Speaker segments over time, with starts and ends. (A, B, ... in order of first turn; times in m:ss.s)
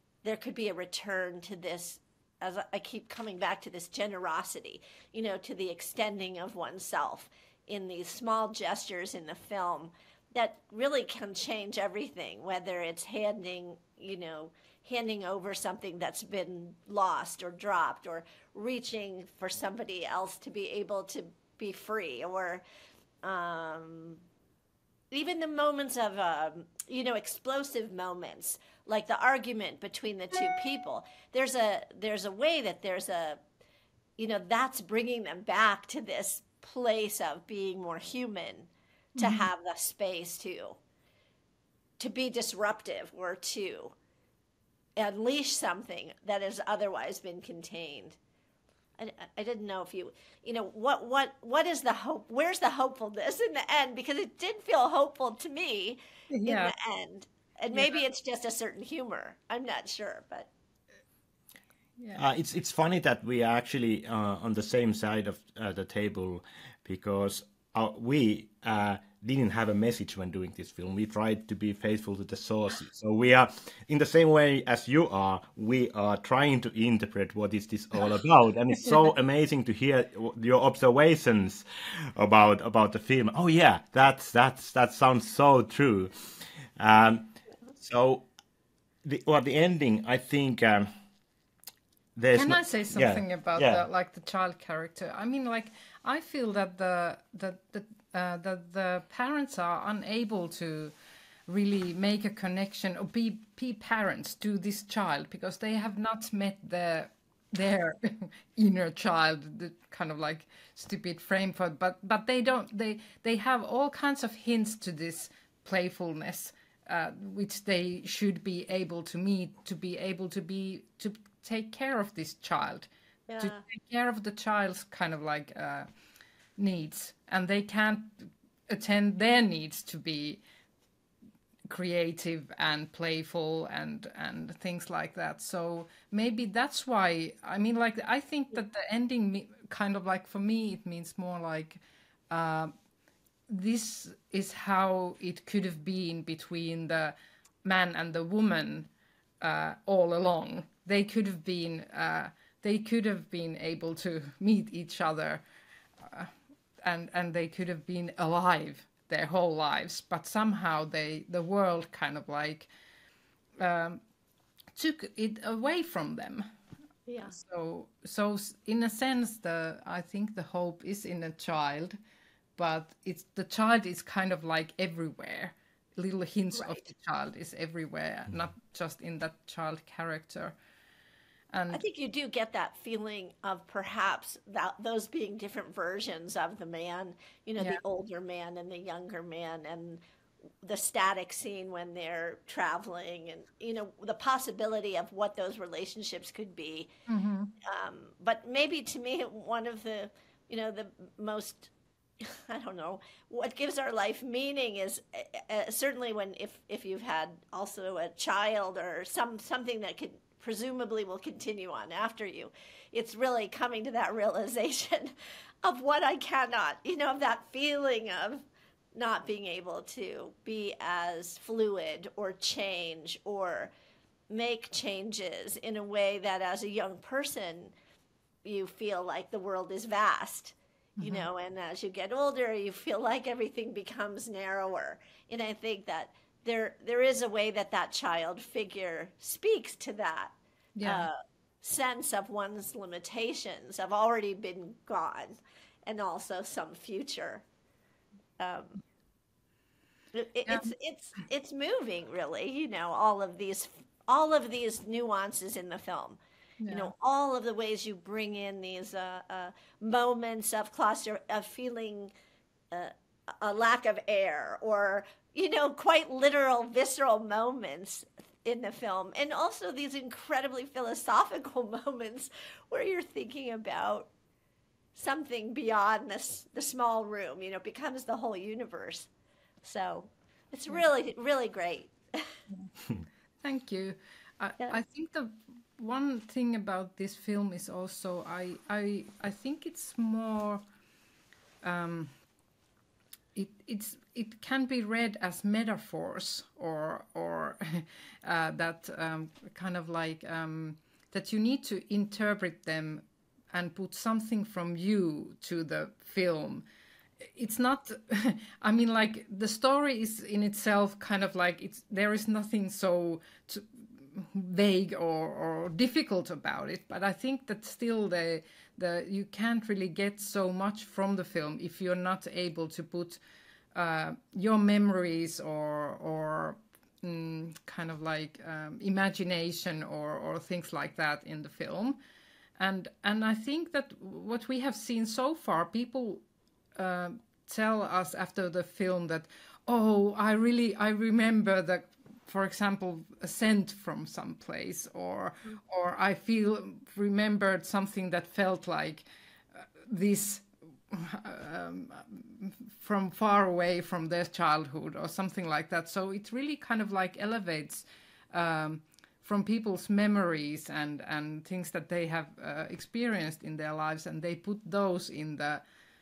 0:00.2-0:22.6 A
0:23.2-0:24.2 A
0:25.1-0:33.4 A
0:34.2-0:40.8 A
0:39.2-0:39.5 B
0:42.0-0:43.9 A
0:45.0-0:48.2 A
0:49.0-1:00.5 A
0:56.3-0:56.7 B
0:57.7-0:58.0 B
1:02.1-1:28.3 C
1:29.0-1:30.9 C
1:32.2-1:33.9 C
1:32.3-1:40.9 B
1:41.5-2:02.9 B
2:03.3-2:03.6 A
2:03.4-2:05.9 B
2:06.6-2:10.4 B
2:11.7-2:22.7 B
2:23.5-2:27.1 B
2:27.6-2:28.9 B
2:29.4-2:35.4 B
2:36.0-2:36.3 B
2:36.8-2:42.7 B
2:43.6-2:44.0 B
2:44.8-2:46.5 B
2:47.1-2:47.4 A
2:47.3-2:52.0 B
2:52.6-3:00.6 B
2:56.6-2:56.9 A
3:01.5-3:01.8 B
3:01.7-3:10.0 A
3:10.6-3:16.9 A
3:17.1-3:17.5 B
3:17.6-3:35.1 A
3:35.6-3:38.4 A
3:38.9-3:43.7 A
3:44.3-3:47.7 A
3:48.4-4:07.4 A
3:51.0-3:51.3 B
4:00.8-4:01.1 B
4:08.4-4:08.8 A
4:10.1-4:22.1 A
4:16.6-4:16.9 B
4:22.7-4:34.1 A
4:34.9-4:39.1 A
4:39.6-4:42.3 A
4:43.4-4:50.6 B
4:51.6-4:52.1 B
4:53.4-5:06.6 B
5:07.2-5:23.2 B
5:23.7-5:32.0 B
5:32.6-5:36.2 B
5:36.8-5:49.0 B
5:49.6-6:05.6 B